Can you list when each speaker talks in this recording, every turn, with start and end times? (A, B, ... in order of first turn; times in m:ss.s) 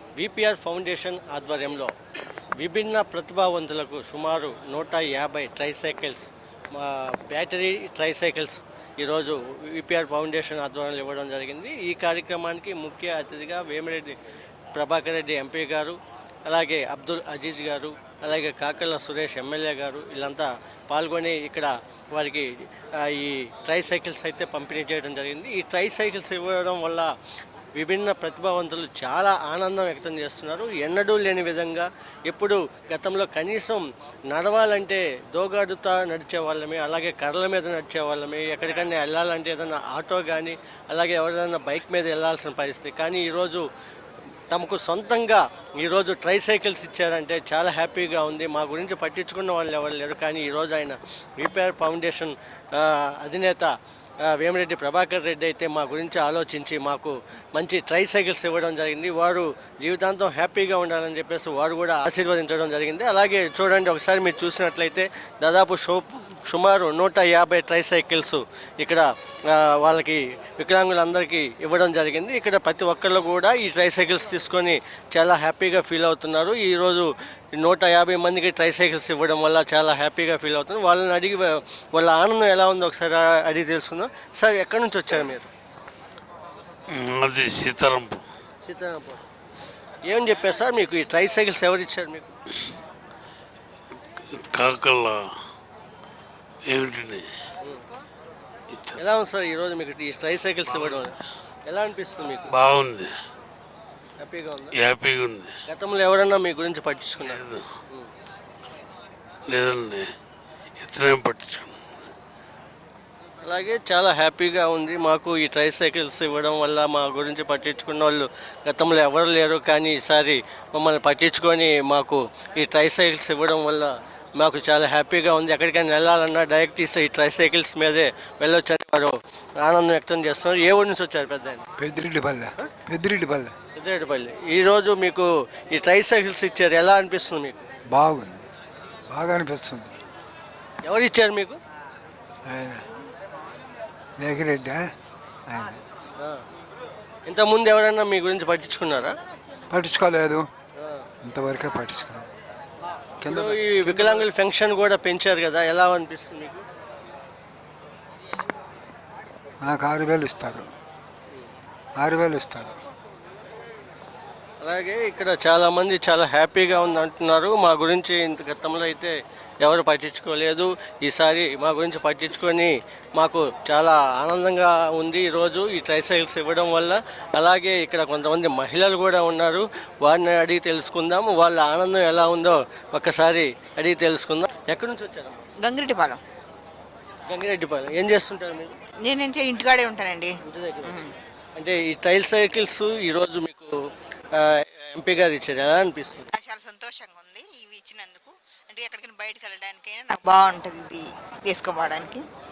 0:00.2-0:01.9 A
0:02.6-0:14.2 A
0:14.7-0:22.5 A
0:23.0-0:27.1 A
0:27.8-0:43.6 A
0:44.5-0:53.7 A
0:54.2-1:25.5 A
1:26.9-1:28.2 B
1:28.6-1:29.2 A
1:30.0-1:32.3 A
1:34.3-1:35.3 B
1:36.6-1:37.3 B
1:39.0-1:41.2 A
1:41.7-1:42.5 A
1:42.5-1:43.1 B
1:44.2-1:44.8 A
1:44.8-1:45.5 B
1:45.7-1:48.1 A
1:47.3-1:47.6 B
1:49.5-1:50.1 B
1:50.8-1:51.8 B
1:53.4-2:11.6 A
2:11.8-2:13.5 C
2:13.8-2:17.6 A
2:17.9-2:18.5 C
2:19.1-2:19.9 C
2:20.8-2:21.6 A
2:22.5-2:22.8 C
2:24.2-2:24.8 C
2:25.5-2:25.8 C
2:27.3-2:29.2 A
2:29.7-2:30.5 C
2:31.2-2:32.3 C
2:33.2-2:36.6 A
2:33.2-2:34.2 C
2:39.6-2:40.7 C
2:42.0-2:42.8 C
2:44.6-3:05.4 A
3:05.6-3:06.2 D
3:07.3-3:08.7 A
3:09.1-3:10.3 D
3:10.5-3:11.0 A
3:10.8-3:11.1 D
3:11.6-3:13.7 A
3:14.4-3:16.3 A
3:16.3-3:22.2 D